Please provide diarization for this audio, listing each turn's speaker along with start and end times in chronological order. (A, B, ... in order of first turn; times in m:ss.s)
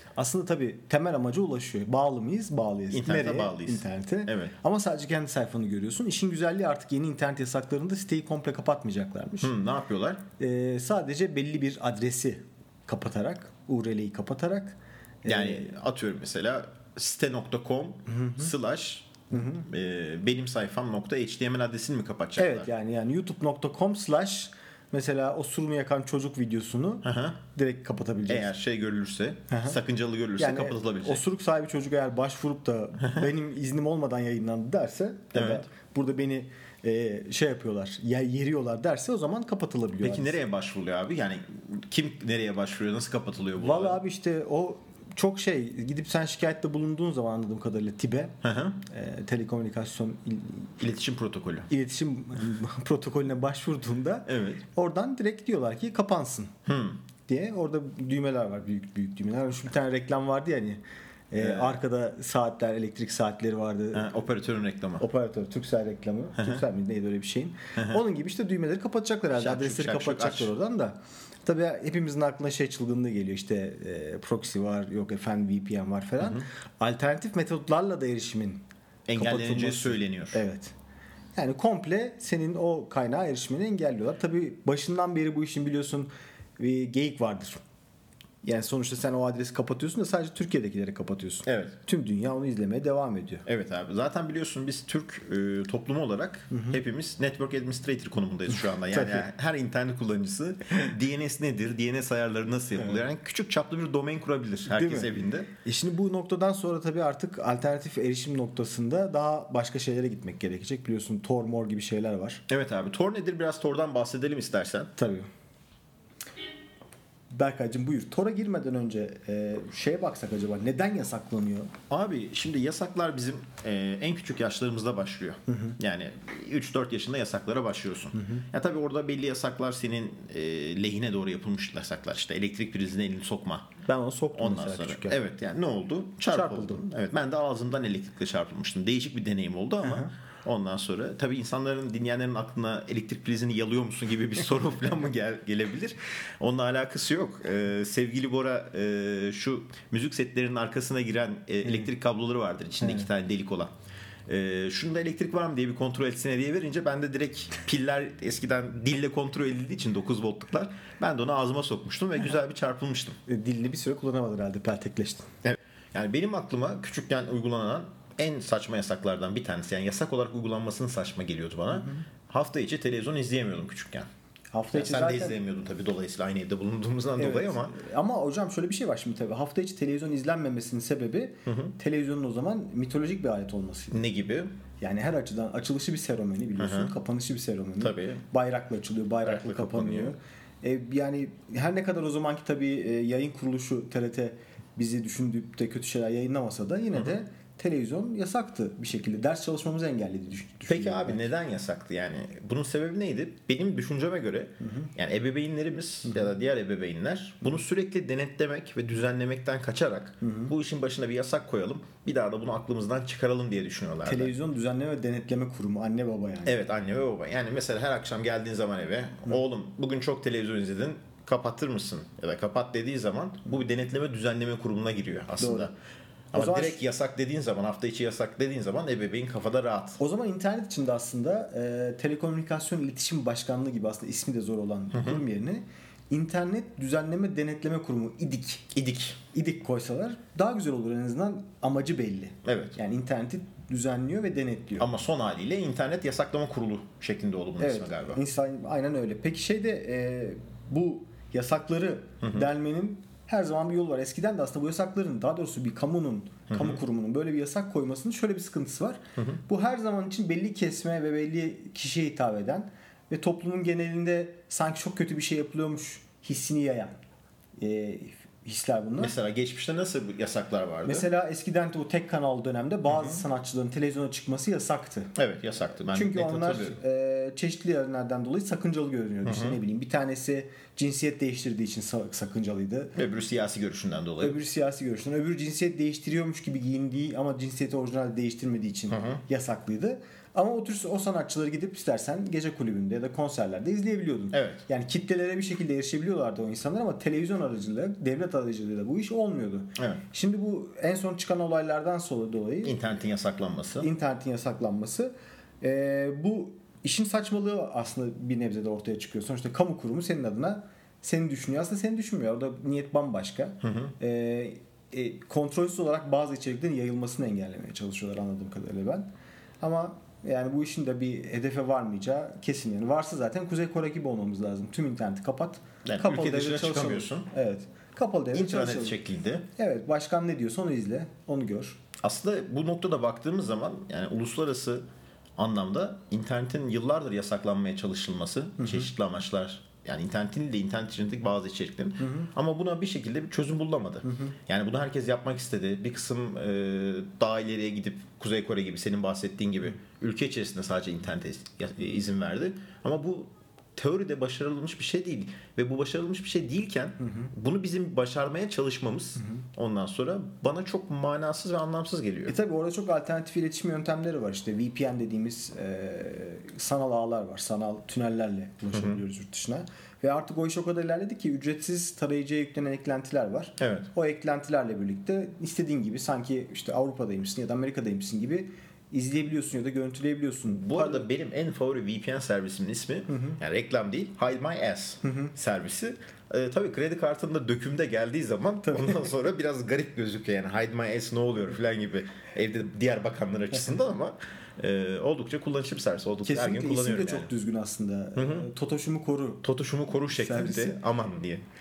0:00.2-0:09.5 A
0:02.9-0:04.5 B
0:09.4-0:10.2 B
0:10.4-0:15.7 A
0:15.2-0:22.7 B
0:18.1-0:18.5 A
0:19.3-0:19.6 A
0:22.4-0:28.5 A
0:27.0-0:27.4 B
0:28.3-0:31.2 B
0:29.5-0:29.8 A
0:30.4-0:40.4 A
0:33.0-0:33.3 B
0:35.3-0:35.6 B
0:40.0-0:44.0 B
0:43.6-0:50.7 A
0:48.4-0:48.8 B
0:50.8-0:51.7 B
0:51.7-0:56.5 A
0:54.2-0:54.6 B
0:56.6-0:57.0 B
0:57.3-1:04.1 A
1:01.4-1:01.7 B
1:03.9-1:05.0 B
1:05.0-1:18.6 A
1:09.3-1:10.5 B
1:16.2-1:16.4 B
1:19.1-1:20.4 B
1:19.2-1:20.7 A
1:21.3-1:27.6 A
1:28.4-1:33.4 A
1:31.4-1:31.7 B
1:33.4-1:45.5 B
1:36.5-1:36.8 A
1:38.9-1:39.3 A
1:44.7-1:52.4 A
1:52.5-1:54.9 B
1:55.0-1:55.3 A
1:57.3-2:01.7 A
2:01.9-2:13.8 B
2:05.5-2:05.8 A
2:13.8-2:15.2 A
2:14.3-2:33.7 B
2:16.3-2:16.8 A
2:19.8-2:20.1 A
2:34.3-2:43.2 B
2:43.3-2:45.3 A
2:45.4-2:54.1 B
2:51.7-2:52.0 A
2:54.5-2:55.4 A
2:54.7-2:57.7 B
2:57.2-3:04.0 A
3:01.4-3:01.7 B
3:03.9-3:04.5 B
3:04.8-3:21.3 A
3:06.6-3:06.9 B
3:07.8-3:08.2 B
3:09.2-3:10.1 B
3:20.7-3:34.3 B
3:30.2-3:30.5 A
3:34.0-3:36.6 A
3:36.4-3:45.7 B
3:45.4-3:45.7 A
3:46.3-3:46.8 A
3:46.3-3:50.0 B
3:50.0-3:58.7 A
3:54.9-3:55.2 B
3:58.7-3:59.2 B
3:59.3-4:04.9 A
4:02.4-4:02.8 B
4:04.8-4:08.2 B
4:07.6-4:27.0 A
4:16.5-4:16.8 B
4:19.2-4:19.4 B
4:27.6-4:29.1 A
4:29.0-4:31.1 B
4:30.8-4:35.1 A
4:35.1-4:36.8 B
4:35.9-4:43.0 A
4:39.2-4:39.6 B
4:42.9-4:44.4 B
4:44.2-5:02.8 A
4:48.9-4:49.2 B
4:54.3-4:54.6 B
4:59.8-5:00.0 B
5:02.6-5:03.9 B
5:03.8-5:19.1 A
5:13.6-5:13.9 B
5:19.6-5:29.0 A
5:25.8-5:27.3 B
5:28.3-5:29.4 B
5:29.6-5:31.8 A
5:32.0-5:34.8 B
5:35.4-6:02.4 B
5:38.6-5:38.9 A
5:42.0-5:42.3 A
5:44.0-5:44.3 A
5:57.0-5:57.3 A
6:02.3-6:21.1 A
6:08.7-6:09.0 B
6:13.6-6:13.9 B
6:20.5-6:37.3 B
6:25.0-6:25.3 A
6:28.7-6:29.1 A
6:36.2-6:39.4 A
6:38.2-6:38.5 B
6:39.4-6:41.4 B
6:40.0-6:40.8 A